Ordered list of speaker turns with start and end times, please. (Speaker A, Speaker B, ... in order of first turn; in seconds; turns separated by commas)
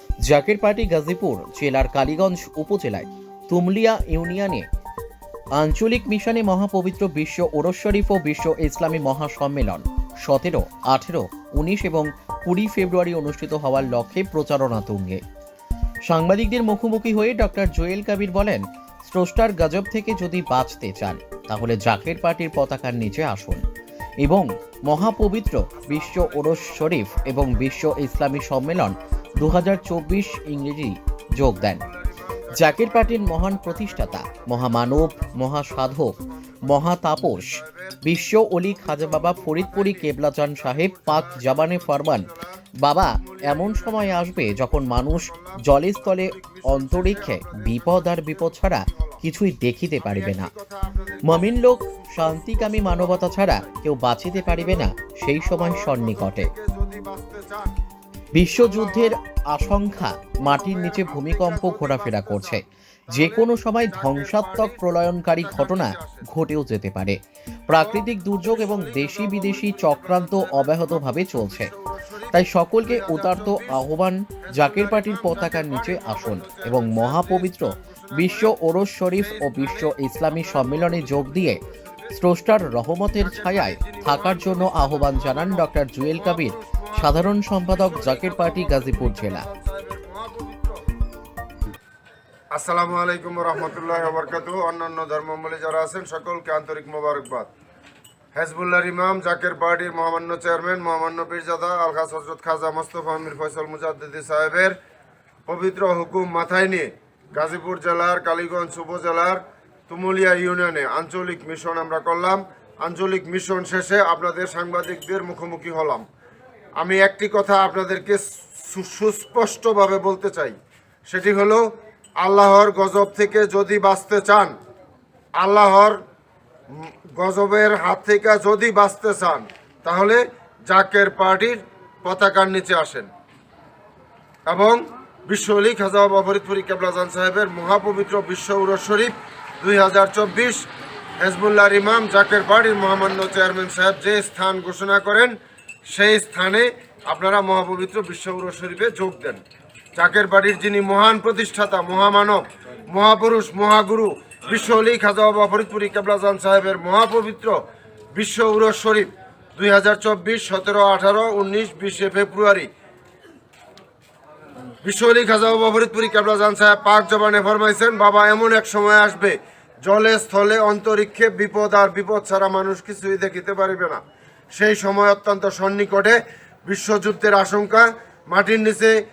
Speaker A: 0.3-4.7, Speaker A: 5.6-15.2, Speaker A: 16.1-23.6, Speaker A: 24.2-31.8, Speaker B: 25.7-30.2, Speaker B: 31.6-38.0, Speaker A: 32.5-36.1, Speaker A: 36.7-42.3, Speaker B: 38.7-42.5, Speaker A: 42.8-50.5, Speaker B: 43.1-49.2, Speaker B: 50.0-57.7, Speaker A: 51.3-56.5, Speaker A: 58.4-67.2, Speaker B: 58.6-59.1, Speaker B: 60.5-66.2, Speaker A: 67.7-71.7, Speaker B: 67.8-73.9, Speaker A: 72.3-81.6, Speaker B: 74.5-82.1, Speaker A: 82.1-89.4, Speaker B: 83.2-90.8, Speaker B: 92.5-97.5, Speaker B: 98.3-104.8, Speaker B: 105.5-116.0, Speaker B: 116.8-120.5, Speaker B: 121.1-121.6, Speaker B: 122.2-124.5, Speaker B: 125.4-126.0, Speaker B: 126.7-133.1, Speaker B: 134.5-140.7, Speaker B: 141.2-145.4, Speaker B: 145.9-149.4, Speaker B: 150.0-157.6, Speaker B: 158.1-162.7, Speaker B: 164.8-174.0, Speaker B: 174.6-178.9